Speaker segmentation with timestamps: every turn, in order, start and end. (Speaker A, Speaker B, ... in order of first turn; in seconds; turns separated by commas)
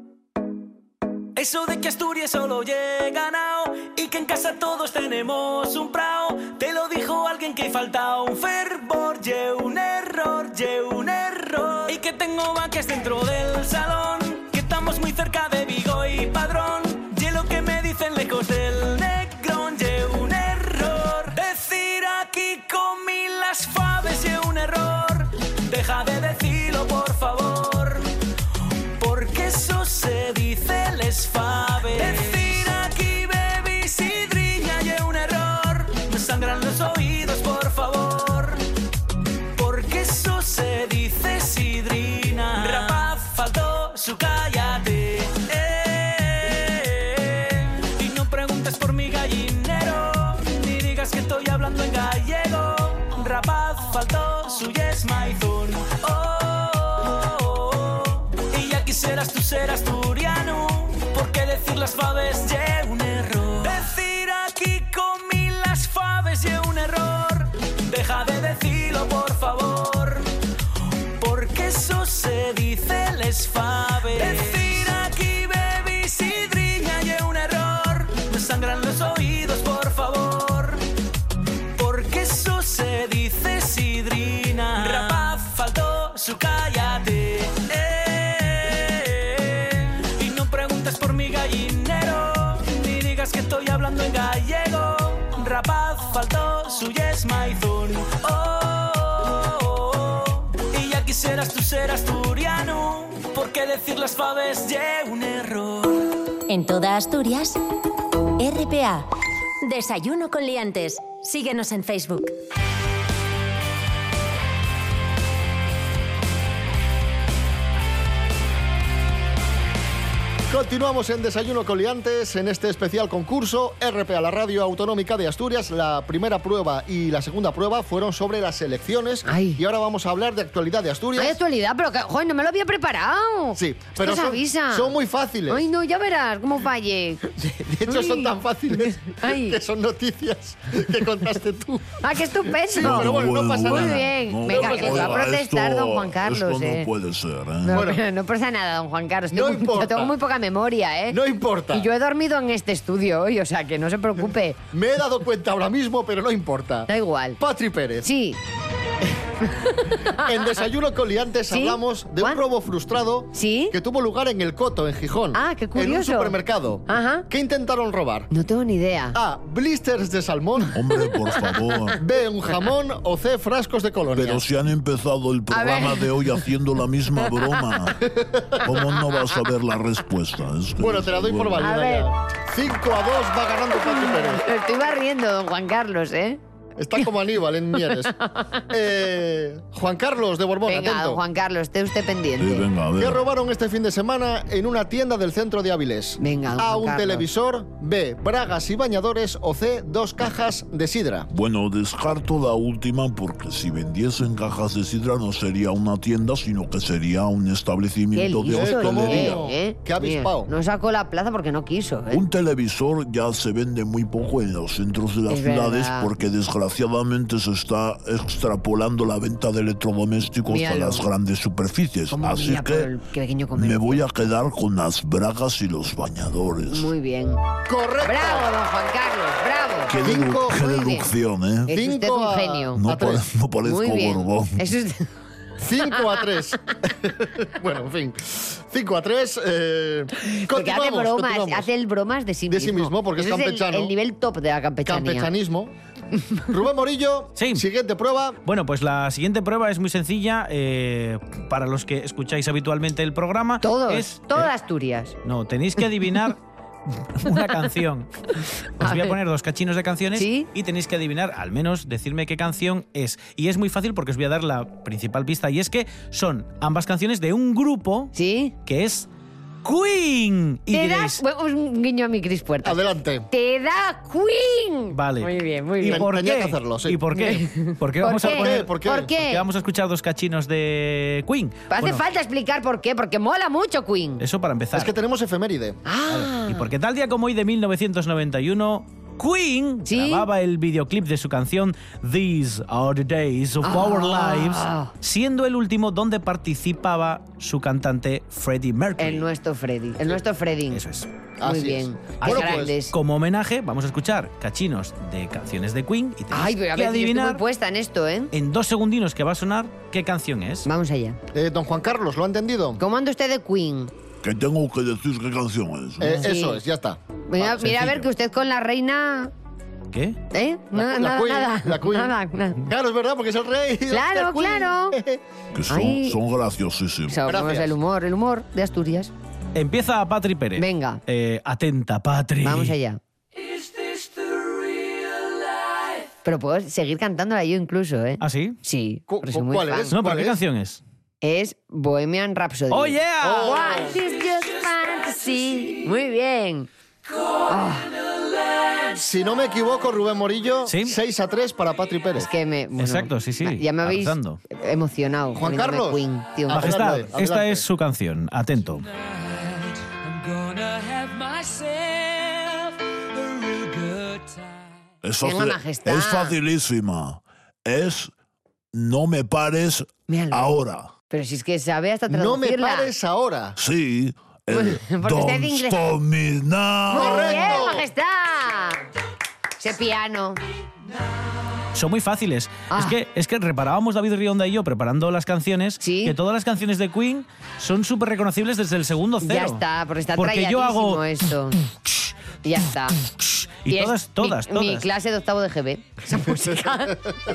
Speaker A: 1.4-28.1, Speaker A: 29.0-38.7, Speaker A: 39.5-70.3, Speaker A: 71.2-80.8, Speaker A: 81.8-106.1, Speaker B: 106.5-107.6, Speaker B: 108.4-109.1, Speaker B: 109.6-112.3, Speaker C: 120.5-131.4, Speaker D: 129.3-129.6, Speaker D: 131.2-134.9, Speaker C: 133.6-135.7, Speaker D: 135.5-139.6, Speaker C: 137.4-145.3, Speaker D: 142.0-146.9, Speaker E: 142.8-147.9, Speaker D: 147.6-151.2, Speaker C: 147.7-148.0, Speaker C: 149.3-150.2, Speaker C: 151.1-151.9, Speaker D: 151.7-154.6, Speaker C: 154.7-158.1, Speaker D: 156.9-157.4, Speaker D: 158.0-158.4, Speaker D: 159.4-160.4, Speaker C: 159.9-168.3, Speaker D: 161.5-162.4, Speaker D: 163.3-163.8, Speaker D: 165.3-167.3, Speaker D: 168.3-169.2, Speaker C: 169.1-170.8, Speaker D: 170.6-172.0, Speaker E: 170.7-172.0, Speaker C: 172.0-174.4, Speaker E: 174.2-178.1, Speaker D: 175.5-176.4, Speaker D: 177.2-177.8, Speaker C: 178.0-178.7, Speaker E: 178.6-181.7, Speaker D: 178.9-179.4, Speaker C: 180.8-184.4, Speaker D: 181.6-182.1, Speaker D: 183.7-186.4, Speaker C: 186.8-191.2, Speaker D: 187.9-188.7, Speaker D: 190.7-192.7, Speaker E: 192.4-193.2, Speaker C: 193.0-201.3, Speaker D: 196.2-197.3, Speaker E: 201.3-209.4, Speaker D: 208.1-212.2, Speaker C: 208.5-210.5, Speaker E: 212.1-222.9, Speaker D: 215.3-216.1, Speaker D: 220.5-221.1, Speaker D: 222.1-224.1, Speaker E: 223.6-226.9, Speaker D: 226.7-227.4, Speaker C: 227.7-228.5, Speaker D: 228.0-231.1, Speaker E: 229.9-231.7, Speaker C: 229.9-230.7, Speaker D: 231.7-232.8, Speaker C: 231.7-233.3, Speaker E: 232.8-234.6, Speaker D: 233.6-235.1, Speaker C: 235.6-241.7, Speaker D: 235.9-236.8, Speaker D: 240.2-245.3, Speaker C: 242.5-243.9, Speaker C: 244.8-245.7, Speaker C: 246.5-248.4, Speaker A: 247.4-247.6, Speaker A: 248.5-254.5, Speaker D: 253.6-255.2, Speaker A: 255.2-256.4, Speaker A: 257.0-268.1, Speaker D: 258.8-259.1, Speaker D: 260.1-260.5, Speaker D: 268.1-268.6, Speaker A: 268.7-269.1, Speaker A: 269.6-271.2, Speaker D: 270.7-276.1, Speaker C: 272.6-273.3, Speaker A: 274.9-282.0, Speaker C: 275.9-277.0, Speaker D: 277.1-279.5, Speaker C: 278.2-279.1, Speaker D: 281.7-284.2, Speaker A: 284.2-284.9, Speaker C: 284.7-285.8, Speaker D: 285.9-286.7, Speaker A: 286.1-299.3, Speaker D: 289.9-290.3, Speaker D: 293.6-294.9, Speaker D: 299.0-300.8, Speaker A: 300.7-301.1, Speaker C: 301.4-302.8, Speaker D: 301.4-302.9, Speaker A: 302.2-307.4, Speaker D: 306.3-308.3, Speaker A: 308.3-310.7, Speaker D: 310.6-311.2, Speaker C: 311.3-312.8, Speaker D: 312.8-313.9, Speaker E: 314.2-316.3, Speaker C: 316.0-318.1, Speaker D: 316.2-316.6, Speaker D: 317.3-319.3, Speaker A: 319.9-320.2, Speaker D: 320.3-322.7, Speaker C: 320.7-325.2, Speaker D: 323.9-325.0, Speaker E: 325.5-327.2, Speaker D: 325.7-326.2, Speaker D: 327.1-329.1, Speaker C: 327.3-327.7, Speaker A: 329.6-332.8, Speaker D: 330.6-331.0, Speaker D: 332.4-333.0, Speaker D: 336.2-339.9, Speaker A: 338.2-338.6, Speaker C: 339.1-340.4, Speaker A: 339.9-340.8, Speaker D: 341.2-346.7, Speaker A: 342.7-343.6, Speaker C: 343.2-344.0, Speaker D: 347.5-347.9, Speaker C: 348.9-352.3, Speaker A: 350.7-351.0, Speaker D: 352.2-356.9, Speaker A: 352.8-354.4, Speaker C: 355.4-357.6, Speaker A: 356.5-358.9, Speaker A: 360.3-362.6, Speaker A: 363.5-364.0, Speaker E: 365.0-368.1, Speaker D: 365.2-366.4, Speaker E: 368.7-370.9, Speaker D: 370.1-370.6, Speaker D: 371.1-372.9, Speaker C: 372.1-373.6, Speaker E: 373.6-377.5, Speaker D: 374.5-375.9, Speaker D: 376.9-378.9, Speaker C: 376.9-377.9, Speaker D: 379.6-380.4, Speaker A: 381.7-389.6, Speaker D: 382.7-383.0, Speaker D: 385.8-386.2, Speaker D: 389.2-391.6, Speaker A: 390.2-391.0, Speaker D: 392.4-393.0, Speaker A: 393.6-394.9, Speaker D: 393.7-397.0, Speaker C: 396.1-397.1